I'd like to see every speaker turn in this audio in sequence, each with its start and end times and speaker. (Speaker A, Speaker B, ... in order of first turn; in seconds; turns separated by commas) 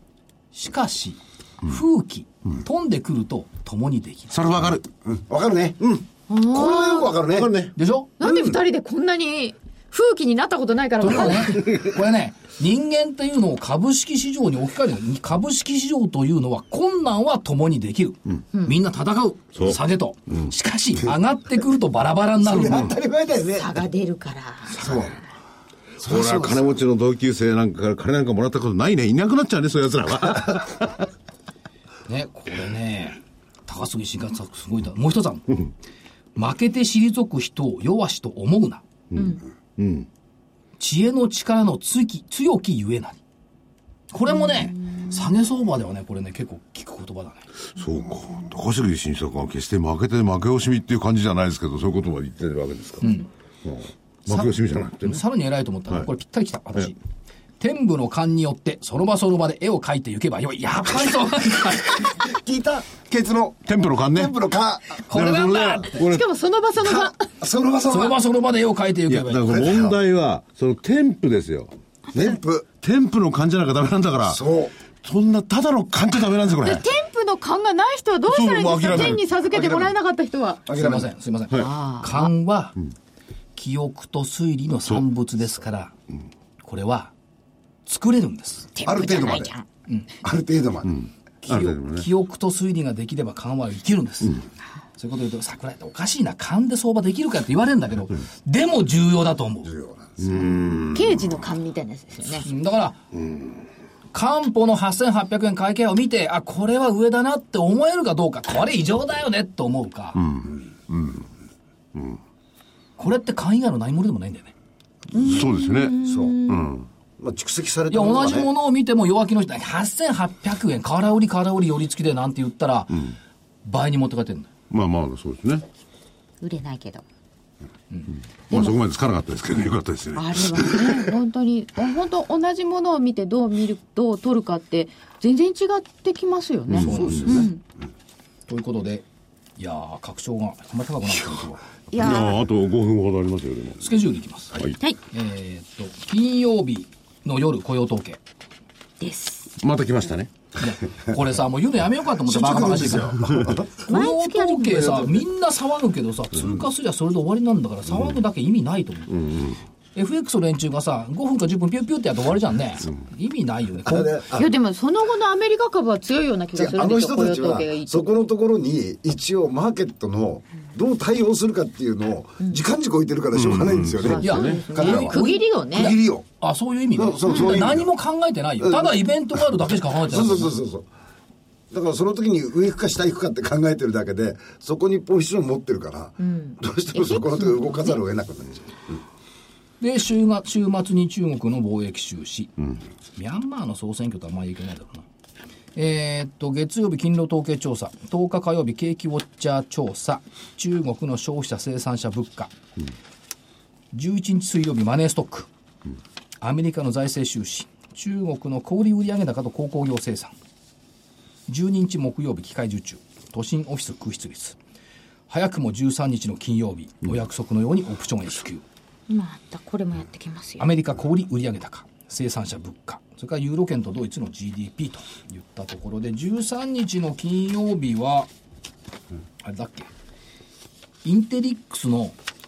Speaker A: 0.5-4.4, Speaker B: 4.3-4.8, Speaker C: 5.0-7.5, Speaker D: 6.3-7.2, Speaker B: 7.3-7.7, Speaker A: 7.8-8.1, Speaker D: 8.2-11.9, Speaker C: 8.2-8.6, Speaker A: 11.0-22.9, Speaker C: 22.4-23.8, Speaker D: 23.5-24.9, Speaker C: 24.7-25.2, Speaker C: 26.0-26.8, Speaker B: 26.0-31.1, Speaker A: 32.1-35.6, Speaker A: 36.4-38.8, Speaker B: 39.1-40.1, Speaker D: 39.1-39.4, Speaker A: 40.8-43.2, Speaker A: 44.1-47.5, Speaker D: 44.6-45.1, Speaker B: 47.8-53.1, Speaker B: 53.6-55.2, Speaker A: 54.3-57.0, Speaker A: 57.6-62.3, Speaker C: 62.1-65.0, Speaker B: 63.6-64.3, Speaker A: 65.0-66.0, Speaker B: 65.0-66.2, Speaker D: 65.9-67.3, Speaker C: 66.8-68.2, Speaker A: 67.9-69.4, Speaker B: 69.1-74.4, Speaker C: 69.5-70.0, Speaker C: 72.1-72.7, Speaker C: 74.2-74.7, Speaker B: 75.0-76.9, Speaker D: 76.6-80.7, Speaker B: 78.3-79.9, Speaker C: 80.7-81.1, Speaker A: 80.7-82.8, Speaker D: 81.5-82.3, Speaker A: 83.5-85.9, Speaker A: 86.6-87.1, Speaker A: 87.8-88.7, Speaker D: 88.7-89.7, Speaker C: 88.8-89.5, Speaker C: 90.2-91.0, Speaker B: 90.9-92.0, Speaker A: 91.4-94.4, Speaker A: 95.0-99.7, Speaker C: 99.6-100.5, Speaker B: 100.2-101.2, Speaker D: 100.9-102.5, Speaker A: 102.4-103.0, Speaker A: 104.1-110.2, Speaker B: 110.2-111.2, Speaker A: 113.0-114.5, Speaker D: 115.1-116.7, Speaker B: 115.1-116.9, Speaker C: 116.0-116.4, Speaker C: 117.2-118.5, Speaker A: 117.9-124.5, Speaker B: 124.7-125.7, Speaker D: 126.4-127.0, Speaker B: 128.5-131.1, Speaker D: 128.5-128.8, Speaker D: 130.2-137.6, Speaker B: 136.7-137.1, Speaker A: 136.7-137.5, Speaker C: 136.8-137.5, Speaker A: 138.5-139.0, Speaker A: 139.6-141.6, Speaker D: 141.9-142.4, Speaker B: 141.9-143.8, Speaker A: 143.8-148.2, Speaker D: 144.7-145.0, Speaker D: 149.0-149.5, Speaker B: 149.6-150.3, Speaker A: 150.6-159.3, Speaker C: 152.2-153.7, Speaker D: 153.8-155.2, Speaker B: 159.1-159.6, Speaker A: 159.9-164.2, Speaker C: 163.8-164.5, Speaker D: 164.3-168.1, Speaker C: 166.5-176.2, Speaker B: 173.3-174.6, Speaker D: 174.1-175.9, Speaker A: 174.2-180.5, Speaker C: 176.9-177.9, Speaker D: 177.2-177.6, Speaker C: 178.6-178.9, Speaker C: 180.0-180.9, Speaker C: 181.7-189.0, Speaker D: 186.2-188.0, Speaker A: 189.8-192.5, Speaker A: 193.2-195.1, Speaker A: 195.7-202.5, Speaker A: 203.9-205.5, Speaker A: 206.4-210.3, Speaker A: 211.5-214.6, Speaker A: 215.3-218.6, Speaker D: 219.1-220.7, Speaker A: 220.6-228.3, Speaker A: 229.4-229.9, Speaker A: 231.0-232.2